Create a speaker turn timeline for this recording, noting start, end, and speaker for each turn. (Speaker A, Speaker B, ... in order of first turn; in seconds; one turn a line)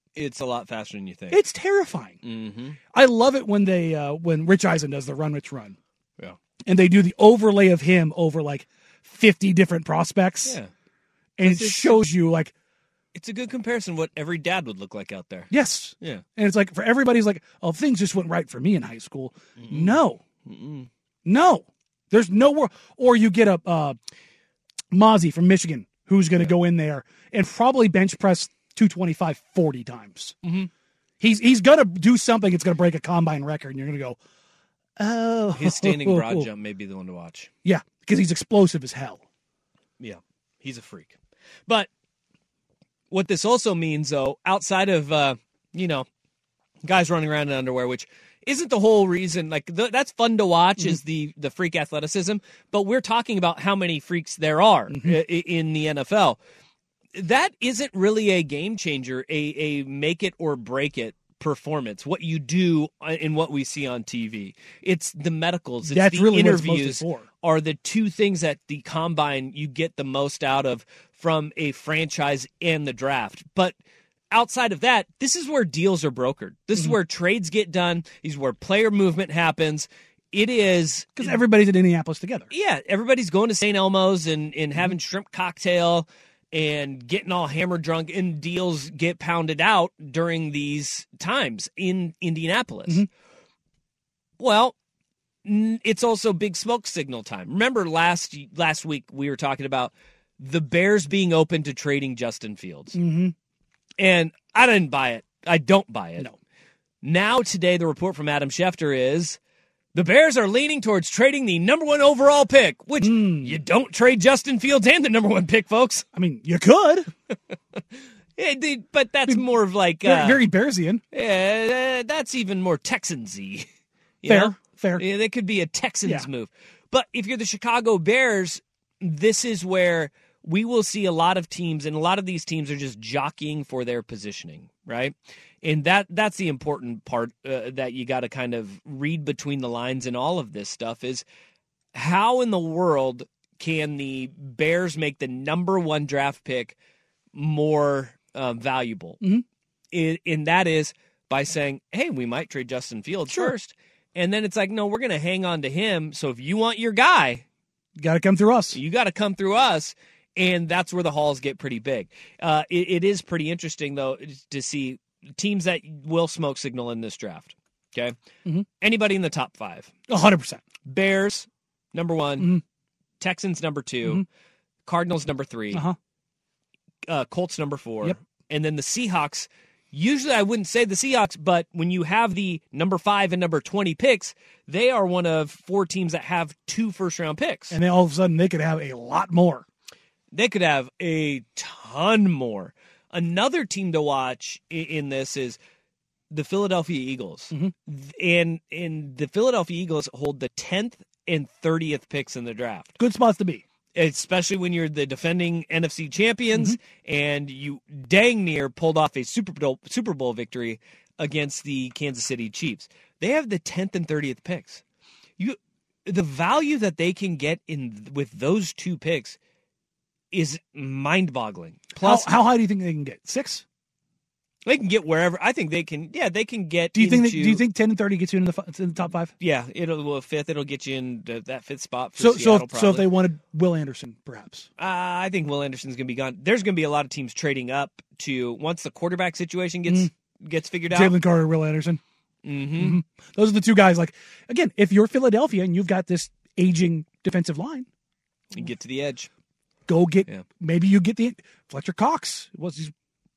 Speaker A: 0.1-1.4
Speaker B: 1.3-2.2
Speaker A: 2.2-2.8
Speaker B: 2.9-5.8
Speaker B: 6.7-10.6
Speaker A: 10.4-10.7
Speaker B: 11.4-12.5
Speaker A: 11.4-12.1
Speaker A: 13.1-16.2
Speaker B: 15.5-20.2
Speaker A: 19.6-20.9
Speaker B: 21.2-24.0
Speaker B: 24.9-30.4
Speaker A: 30.4-30.7
Speaker B: 31.2-34.2
Speaker B: 35.0-36.5
Speaker A: 35.5-37.5
Speaker B: 37.6-39.2
Speaker A: 40.0-41.2
Speaker A: 43.1-46.1
Speaker A: 46.8-56.4
Speaker A: 57.1-73.8
Speaker B: 65.8-67.3
Speaker A: 74.3-81.4
Speaker B: 81.2-82.5
Speaker A: 82.5-93.0
Speaker A: 94.4-94.7
Speaker A: 95.5-103.0
Speaker B: 102.9-103.3
Speaker A: 104.0-106.3
Speaker A: 107.0-109.4
Speaker A: 109.9-116.1
Speaker B: 113.0-113.6
Speaker B: 116.1-117.1
Speaker A: 118.4-120.5
Speaker B: 120.0-121.0
Speaker A: 121.1-123.7
Speaker A: 124.2-141.2
Speaker B: 124.3-125.0
Speaker A: 141.9-146.8
Speaker A: 147.3-149.2
Speaker A: 149.9-157.4
Speaker B: 153.3-153.5
Speaker B: 158.0-158.8
Speaker A: 158.7-168.2
Speaker A: 168.8-169.9
Speaker B: 170.1-170.6
Speaker A: 170.8-172.6
Speaker A: 173.2-174.2
Speaker A: 174.9-175.8
Speaker A: 177.1-187.8
Speaker B: 187.7-189.7
Speaker A: 190.3-195.6
Speaker A: 196.3-203.0
Speaker B: 203.0-203.6
Speaker A: 203.9-214.8
Speaker A: 215.4-219.4
Speaker A: 220.3-222.4
Speaker B: 222.0-223.6
Speaker A: 224.7-227.6
Speaker B: 226.9-229.3
Speaker A: 229.4-233.1
Speaker B: 232.2-234.7
Speaker A: 234.8-241.2
Speaker B: 240.9-242.0
Speaker A: 242.4-243.0
Speaker B: 242.7-247.9
Speaker A: 248.5-249.3
Speaker B: 249.9-252.9